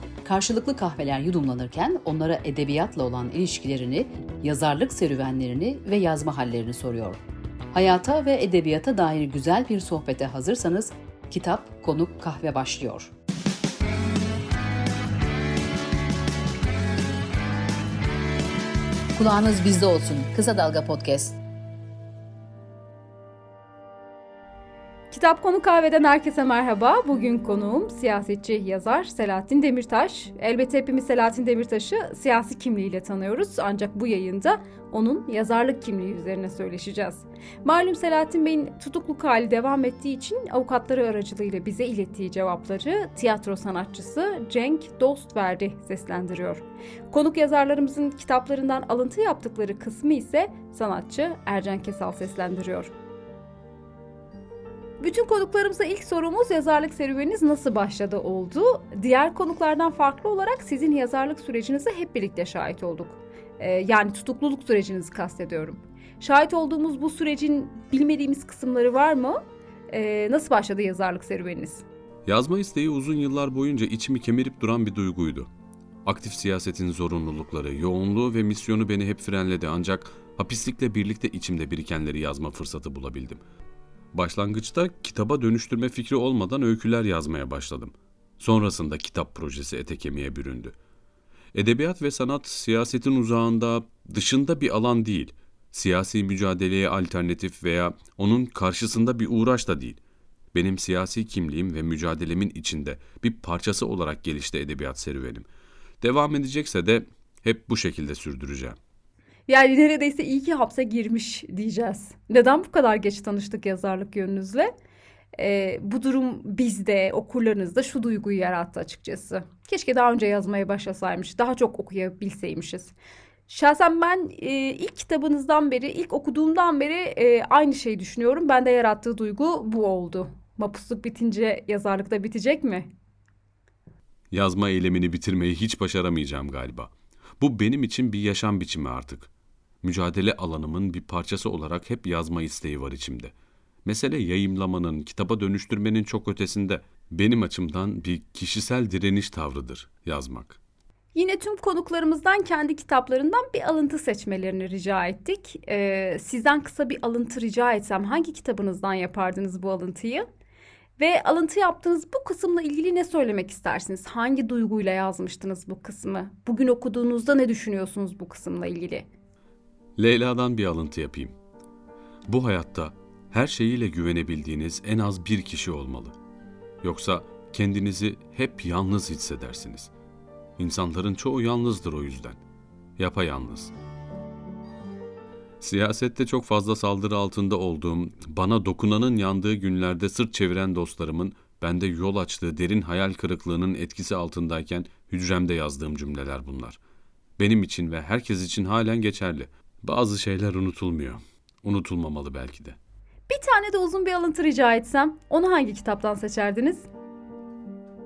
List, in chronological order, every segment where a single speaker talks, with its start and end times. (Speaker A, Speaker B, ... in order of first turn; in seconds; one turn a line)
Speaker A: 0.2-7.2
Speaker A: 7.7-13.1
Speaker A: 19.1-21.4
Speaker B: 25.1-52.9
Speaker B: 55.0-71.9
Speaker C: 72.3-75.5
Speaker C: 76.0-83.4
Speaker C: 84.1-90.7
Speaker C: 91.5-100.0
Speaker C: 100.5-105.5
Speaker C: 106.0-108.8
Speaker B: 109.5-114.7
Speaker B: 115.4-123.0
Speaker B: 123.5-132.9
Speaker C: 134.3-139.3
Speaker C: 139.8-143.3
Speaker C: 143.8-150.6
Speaker B: 151.1-160.3
Speaker B: 161.0-169.1
Speaker C: 170.0-171.3
Speaker C: 172.3-176.2
Speaker C: 176.8-179.9
Speaker C: 180.6-182.4
Speaker C: 183.0-183.7
Speaker C: 185.6-196.8
Speaker C: 197.4-202.8
Speaker B: 203.3-206.9